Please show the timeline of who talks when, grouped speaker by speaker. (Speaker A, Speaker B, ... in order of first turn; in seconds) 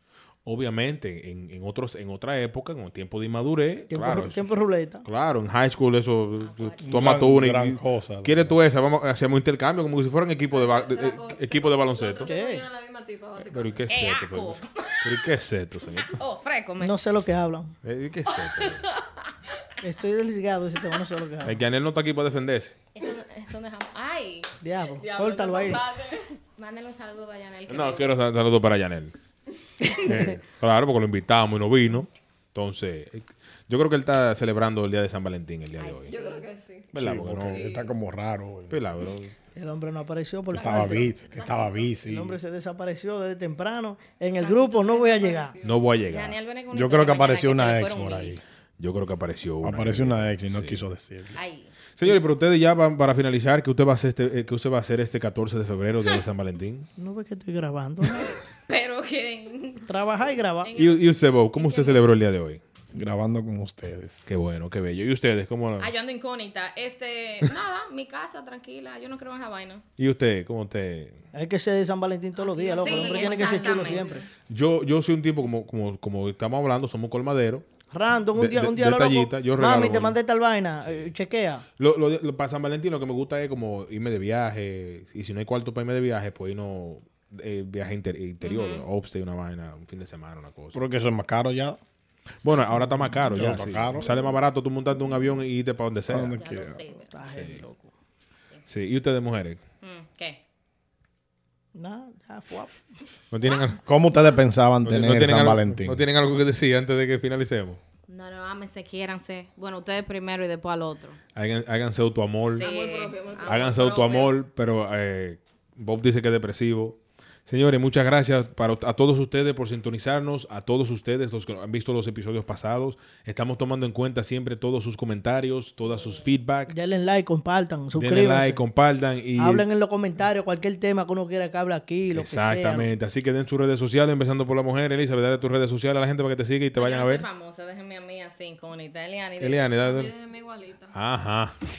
Speaker A: 0.5-4.5, 5.0-12.3, 13.5-16.2, 17.8-18.9, 21.4-22.8, 27.7-29.1, 29.9-36.2, 36.9-37.9, 38.7-39.3, 45.6-46.4, 48.8-50.8, 52.0-56.9, 60.8-62.6, 64.3-65.9, 70.0-71.2, 74.5-77.7, 78.3-80.2, 81.8-90.8, 92.4-96.4, 97.3-97.6, 98.7-99.6, 103.3-103.8, 104.8-107.8, 111.3-112.7, 113.5-126.7, 128.0-129.7, 132.1-137.3, 139.4-140.1, 140.9-141.6
Speaker B: 3.9-5.0, 12.2-12.7, 16.8-17.8, 19.8-21.6, 24.6-25.9, 29.8-30.4, 39.6-41.1, 42.0-45.5, 57.0-58.3, 59.9-60.7, 71.3-74.3, 77.9-81.7, 97.1-97.9, 101.8-102.8, 126.7-128.6, 129.4-132.9
Speaker C: 6.4-6.9, 13.9-15.3, 16.0-16.9, 18.4-19.6, 22.9-24.5, 26.6-28.2, 35.8-36.5, 46.1-48.4, 51.4-51.7, 58.1-59.9, 60.6-62.2, 65.8-69.8, 72.4-74.1, 88.4-88.9, 92.5-92.8, 96.3-97.6, 99.8-100.4, 108.1-111.2, 112.6-114.4, 136.8-139.7
Speaker D: 6.8-8.6, 36.9-38.8, 40.5-42.4, 46.7-48.4, 49.6-51.4, 62.9-64.3, 90.7-91.8, 93.2-94.1, 96.1-96.8, 103.9-106.0
Speaker E: 10.5-13.9, 25.0-26.3, 36.1-37.9, 40.6-41.9, 44.4-46.0, 72.5-74.3, 112.5-113.8, 139.8-140.9